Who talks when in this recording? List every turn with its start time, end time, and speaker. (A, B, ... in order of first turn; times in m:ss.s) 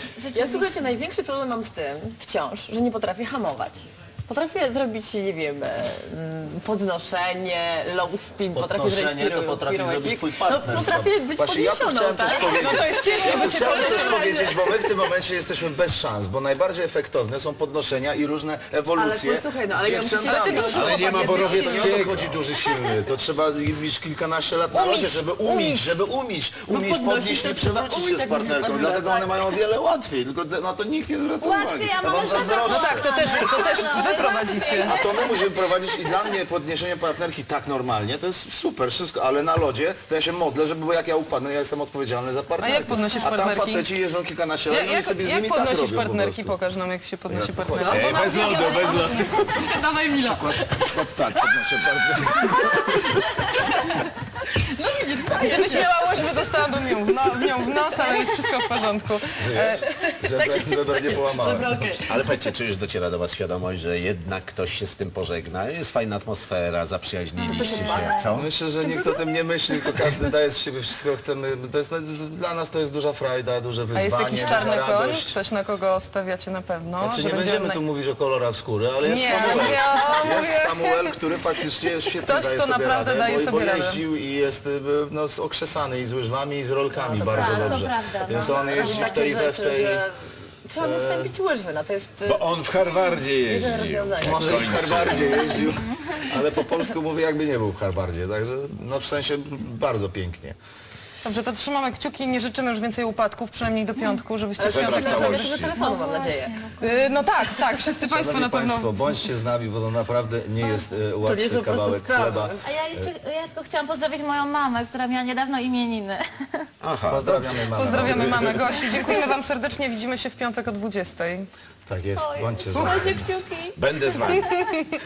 0:00.2-0:01.0 A
0:00.3-0:14.5 B
0:08.5-0:20.9 C
0:12.2-0:14.6 D
0:18.9-0:21.8 B
0:20.2-0:22.0 D
0:20.7-0:22.4 E
0:21.5-0:33.8 C
0:24.7-0:26.0 D
0:26.7-0:29.6 B
0:31.4-0:36.2 A
0:32.4-0:34.9 D
0:34.8-0:46.6 C
0:42.6-0:43.9 D
0:44.7-0:50.4 D
0:47.3-0:48.0 C
0:47.9-0:48.2 B
0:47.9-0:49.7 E
0:49.5-0:51.6 B
0:50.2-0:53.1 C
0:52.3-0:53.2 B
0:54.8-0:58.8 B
0:55.3-0:59.9 D
0:59.4-1:02.0 C
0:59.8-1:02.5 B
1:02.1-1:08.5 E
1:07.4-1:08.2 A
1:07.4-1:08.3 B
1:08.3-1:15.3 C
1:13.9-1:17.8 D
1:17.0-1:30.0 C
1:19.0-1:21.2 D
1:19.3-1:20.3 B
1:22.2-1:24.0 D
1:26.9-1:35.6 B
1:27.3-1:29.4 A
1:30.8-1:31.3 C
1:32.2-1:35.5 E
1:34.2-1:40.6 C
1:35.5-1:36.2 A
1:41.2-1:45.5 D
1:44.6-1:46.6 B
1:44.6-1:45.7 E
1:45.6-1:47.0 A
1:46.8-1:49.2 D
1:48.1-1:53.1 C
1:51.2-1:52.6 B
1:52.6-1:56.7 A
1:56.8-1:58.8 E
1:57.1-1:58.6 C
1:57.8-2:01.5 D
2:01.9-2:03.3 C
2:02.1-2:04.8 A
2:02.7-2:03.1 D
2:03.8-2:04.5 E